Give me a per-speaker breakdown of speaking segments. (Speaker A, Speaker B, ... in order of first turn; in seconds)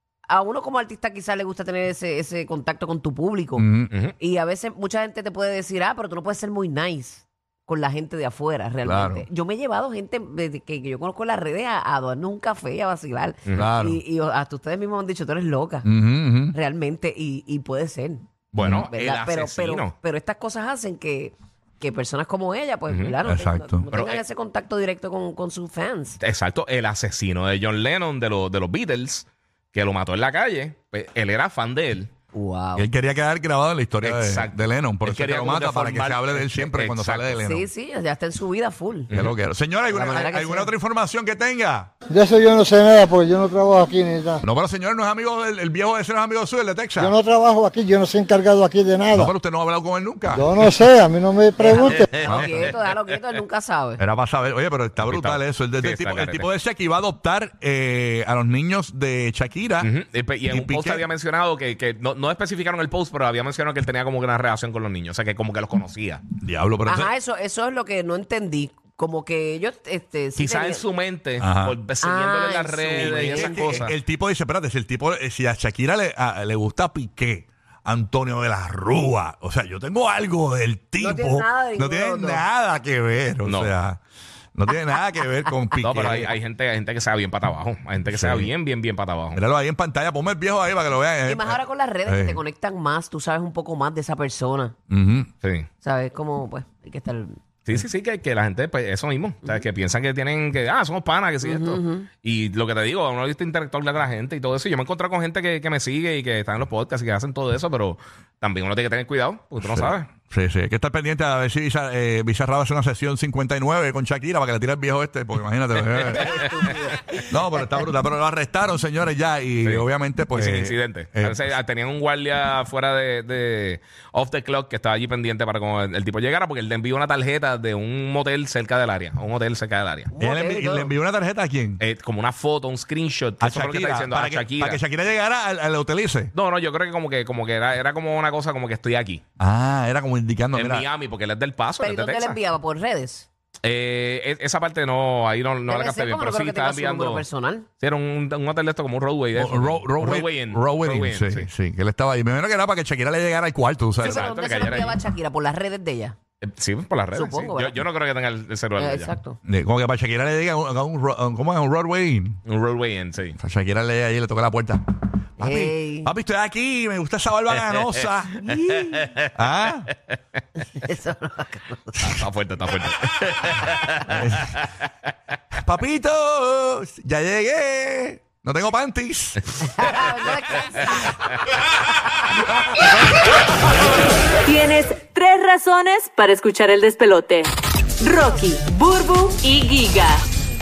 Speaker A: 0.3-3.7, 4.2-15.9, 16.5-26.2, 32.3-32.9, 37.4-39.1, 39.9-40.7, 51.6-54.0, 66.8-70.8, 72.0-73.9, 81.0-82.5, 91.2-94.8, 95.8-97.4, 101.4-102.1, 116.1-117.3, 130.1-130.9, 141.8-143.3, 145.7-147.7, 154.0-156.2, 157.1-157.8, 158.8-159.4, 165.4-166.1, 168.4-169.1, 170.8-172.0, 179.7-181.1
Speaker B: 3.6-3.9, 8.8-9.3, 13.6-14.0, 15.8-16.6, 18.6-18.9, 23.3-23.9, 32.8-37.7, 39.1-41.9, 44.4-47.1, 49.1-50.5, 52.2-52.7, 54.0-59.9, 60.5-61.1, 66.4-67.1, 71.4-71.8, 73.0-84.0, 84.5-86.4, 88.0-88.5, 89.3-92.4, 94.9-95.3, 109.6-116.4, 117.3-121.5, 130.2-131.8, 133.4-136.3, 139.4-140.9, 149.3-154.3, 159.4-162.4, 163.4-164.8, 165.4-168.4, 169.3-169.9, 174.0-174.5, 175.7-180.0
Speaker C: 3.9-4.2, 18.5-19.9, 22.9-23.2, 23.9-24.2, 26.2-32.1, 34.0-37.4, 39.1-39.4, 51.8-52.8, 55.1-56.5, 59.8-66.2, 70.4-74.0, 83.5-83.7, 85.8-89.4, 97.7-110.1, 115.8-116.7, 119.6-130.1, 131.8-134.8, 136.3-139.2, 140.5-142.4, 143.6-147.2, 147.8-151.5, 154.0-155.0, 156.4-159.2, 162.5-163.4, 167.6-168.1, 168.9-169.3, 172.0-174.7
Speaker D: 42.1-44.4, 47.0-49.3, 50.3-52.1
Speaker E: 184.4-190.2